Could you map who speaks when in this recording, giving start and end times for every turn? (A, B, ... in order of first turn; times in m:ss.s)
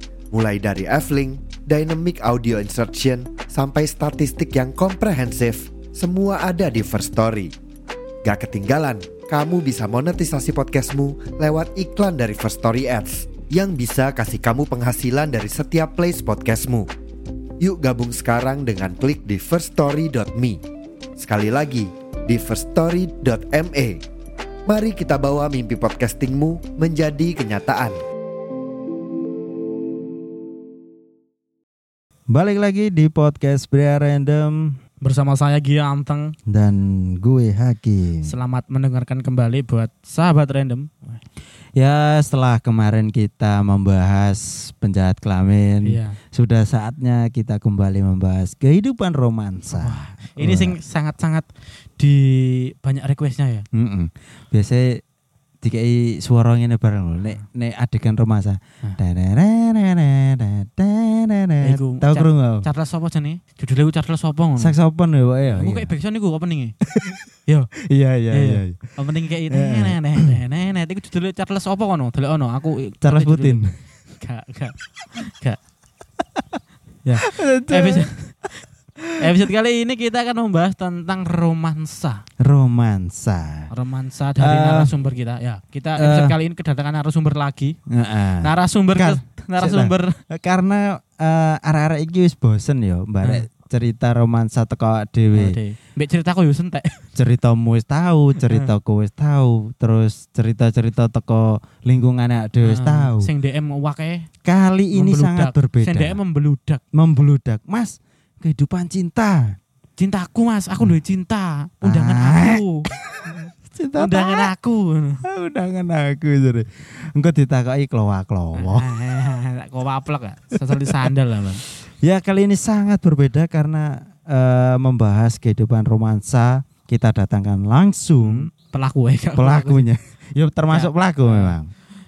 0:00.3-0:07.5 A
0:08.2-0:16.9 A
0:17.6-0:20.6 A
0:21.2-0:24.0 A
0:24.7-0:28.0 A
0:32.3-0:34.8 B
0:35.0-0:36.3 C
0:36.5-0:38.3 B
0:38.2-0:41.2 C
0:41.8-0:50.8 B
0:45.8-0:46.2 C
0:49.7-0:53.6 C
0:53.7-0:55.0 B
0:55.6-1:02.6 B
1:01.6-1:04.8 C
1:04.6-1:05.9 B
1:05.5-1:06.8 C
1:06.9-1:07.2 B
1:07.4-1:07.7 C
1:07.9-1:09.0 B
1:08.3-1:13.6 C
1:09.5-1:10.4 B
1:13.0-1:13.7 B
1:14.2-1:15.6 C
1:17.0-1:18.6 C
1:17.2-1:18.1 B
1:19.2-1:22.2 C
1:22.4-1:23.7 B
1:23.7-1:27.8 C
1:24.4-1:24.9 B
1:26.0-1:26.4 B
1:27.9-1:35.6 B
1:28.4-1:30.1 C
1:35.3-1:37.0 C
1:37.2-1:43.3 B
1:38.4-1:38.7 C
1:42.6-1:44.3 C
1:44.4-1:46.2 B
1:44.9-1:46.8 C
1:46.9-1:49.5 B
1:50.0-1:52.8 C
1:51.8-1:54.5 B
1:54.0-1:55.2 C
1:55.3-1:58.9 B
1:58.6-2:01.6 C
2:02.0-2:08.5 B
2:08.2-2:09.9 C
2:09.4-2:11.7 B
2:10.7-2:11.6 C